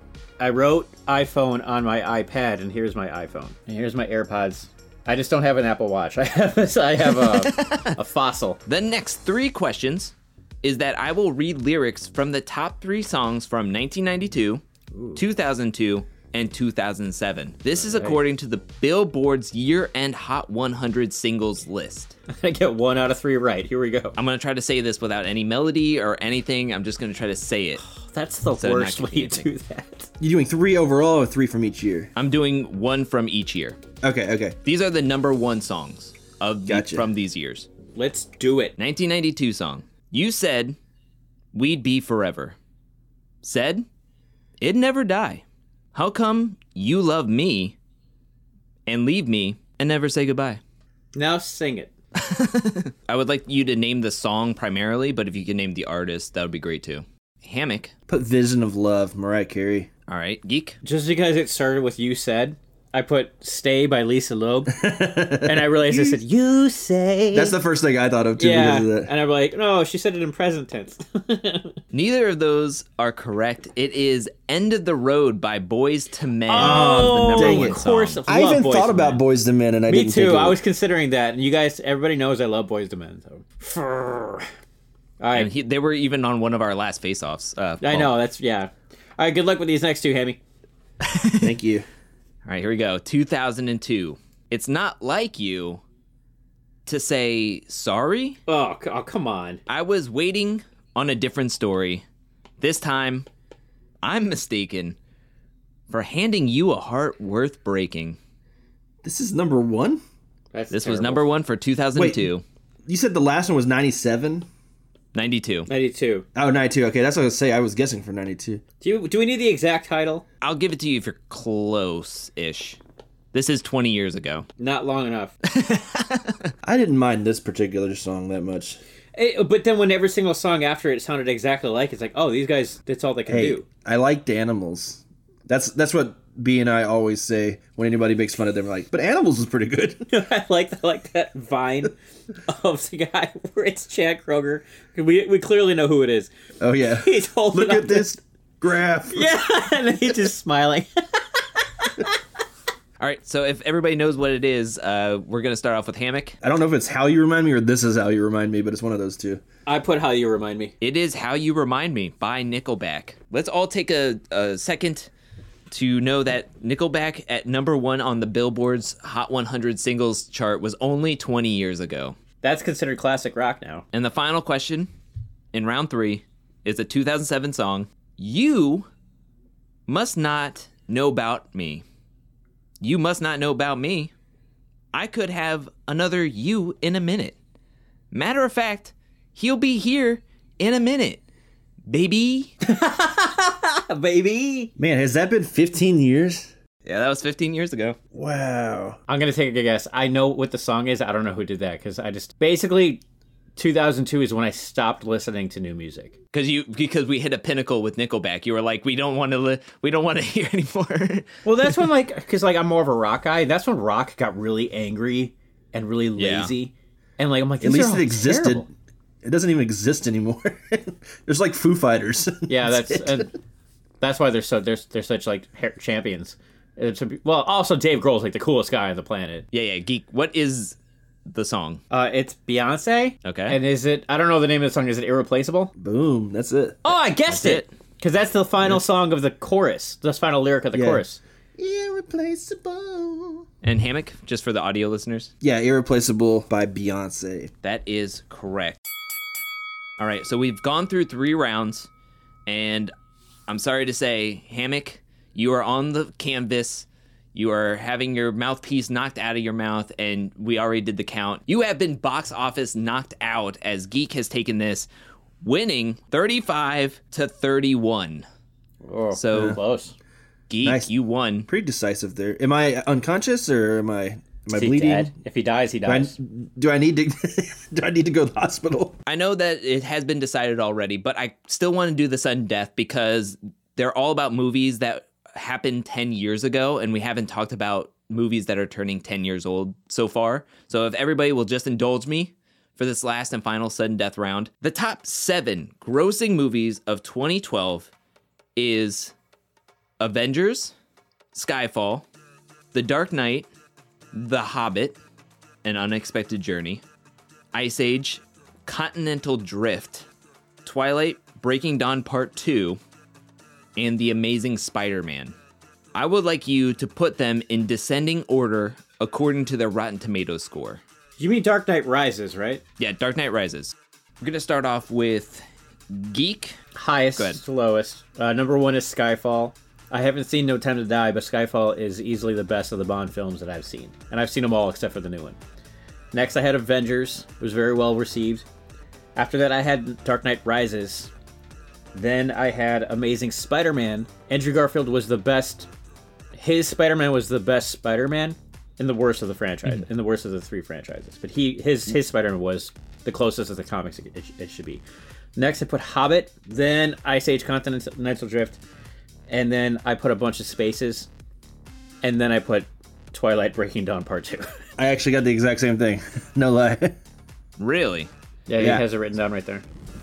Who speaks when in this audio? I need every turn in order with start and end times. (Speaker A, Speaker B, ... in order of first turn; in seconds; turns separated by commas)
Speaker A: 0.4-8.6, Speaker B: 7.0-8.0, Speaker B: 8.7-14.6, Speaker A: 14.9-15.2, Speaker B: 15.2-22.1, Speaker A: 17.8-18.2, Speaker A: 22.3-24.1, Speaker B: 24.2-27.8, Speaker A: 27.8-30.1, Speaker B: 28.6-29.5, Speaker C: 30.2-32.1, Speaker B: 32.1-33.8, Speaker C: 34.0-34.6, Speaker B: 34.6-37.7, Speaker C: 36.6-37.1, Speaker A: 37.9-38.7, Speaker B: 38.8-40.8, Speaker B: 41.5-42.5, Speaker B: 43.4-43.9, Speaker B: 44.6-47.8, Speaker B: 48.9-50.6, Speaker A: 51.1-51.9, Speaker B: 52.1-57.9, Speaker C: 58.1-59.9, Speaker B: 60.1-60.8, Speaker A: 60.8-64.8, Speaker C: 64.7-66.2, Speaker A: 65.4-67.5, Speaker C: 67.3-69.1, Speaker A: 68.4-71.8, Speaker B: 71.9-78.2, Speaker A: 76.5-79.2, Speaker C: 76.5-80.6, Speaker A: 79.9-84.5, Speaker A: 85.2-85.5, Speaker B: 85.3-88.1, Speaker A: 87.8-90.4, Speaker B: 91.0-91.5, Speaker C: 91.4-91.8, Speaker B: 92.4-95.8, Speaker B: 96.8-98.4, Speaker A: 98.5-99.6, Speaker B: 99.7-102.0, Speaker B: 102.6-103.3, Speaker B: 104.0-105.0, Speaker B: 105.9-108.2, Speaker C: 109.0-110.0, Speaker A: 110.5-111.2, Speaker B: 110.7-112.4, Speaker C: 111.9-112.3, Speaker C: 112.8-114.5, Speaker B: 115.1-115.7, Speaker A: 115.7-116.2, Speaker C: 116.3-118.6, Speaker A: 118.8-120.2, Speaker B: 120.4-122.8, Speaker B: 123.3-124.5, Speaker A: 124.6-125.3, Speaker B: 125.5-126.5, Speaker C: 126.6-128.8, Speaker A: 129.1-133.7, Speaker C: 133.3-140.1, Speaker A: 140.1-141.9, Speaker A: 142.4-146.3, Speaker C: 146.6-149.3, Speaker A: 146.9-148.1, Speaker A: 149.1-152.2, Speaker B: 153.0-156.4, Speaker C: 156.4-159.4, Speaker A: 159.7-160.7, Speaker B: 160.8-165.1, Speaker B: 165.7-172.2, Speaker A: 172.4-173.8, Speaker B: 173.9-174.9, Speaker B: 175.5-178.9, Speaker B: 179.9-181.8, Speaker B: 182.8-184.1, Speaker B: 184.9-187.4, Speaker B: 188.1-191.2, Speaker B: 191.9-192.5, Speaker A: 192.6-194.7, Speaker C: 194.8-196.5, Speaker B: 196.8-198.0, Speaker C: 198.1-199.0, Speaker A: 199.1-203.0, Speaker A: 203.6-206.1, Speaker B: 206.3-211.3, Speaker A: 211.4-218.7, Speaker B: 216.2-216.5, Speaker C: 217.6-218.7, Speaker C: 219.2-223.3, Speaker A: 222.5-223.3, Speaker A: 224.0-229.4, Speaker B: 229.5-231.8, Speaker A: 231.9-235.7, Speaker B: 233.2-233.6, Speaker C: 235.8-236.8, Speaker A: 236.8-241.2, Speaker B: 237.3-237.7, Speaker C: 240.7-241.0, Speaker C: 241.6-243.4, Speaker B: 243.6-245.3, Speaker C: 245.4-247.5, Speaker B: 247.6-248.8, Speaker B: 250.0-251.9, Speaker B: 252.5-252.9, Speaker B: 253.5-264.9, Speaker B: 265.4-268.2, Speaker A: 268.8-269.9, Speaker B: 269.1-269.6, Speaker B: 270.5-271.5, Speaker C: 270.6-270.9, Speaker C: 271.5-275.1, Speaker A: 274.5-276.1, Speaker C: 275.9-279.0, Speaker B: 279.1-297.9, Speaker B: 298.6-299.1, Speaker B: 300.0-300.7, Speaker B: 301.3-302.1, Speaker B: 302.7-303.5, Speaker B: 304.1-305.0, Speaker B: 305.6-306.8, Speaker B: 307.5-310.1, Speaker B: 310.6-312.8, Speaker B: 313.8-315.3, Speaker B: 315.9-320.8, Speaker A: 321.2-322.6, Speaker B: 322.8-326.6, Speaker A: 326.7-335.4, Speaker A: 336.1-338.4, Speaker A: 339.1-341.1, Speaker A: 341.9-345.7, Speaker A: 346.4-354.8, Speaker A: 355.4-358.6, Speaker A: 359.3-361.1, Speaker A: 362.0-364.5, Speaker C: 364.8-366.9, Speaker B: 367.6-368.1, Speaker A: 368.5-369.6, Speaker C: 368.6-368.8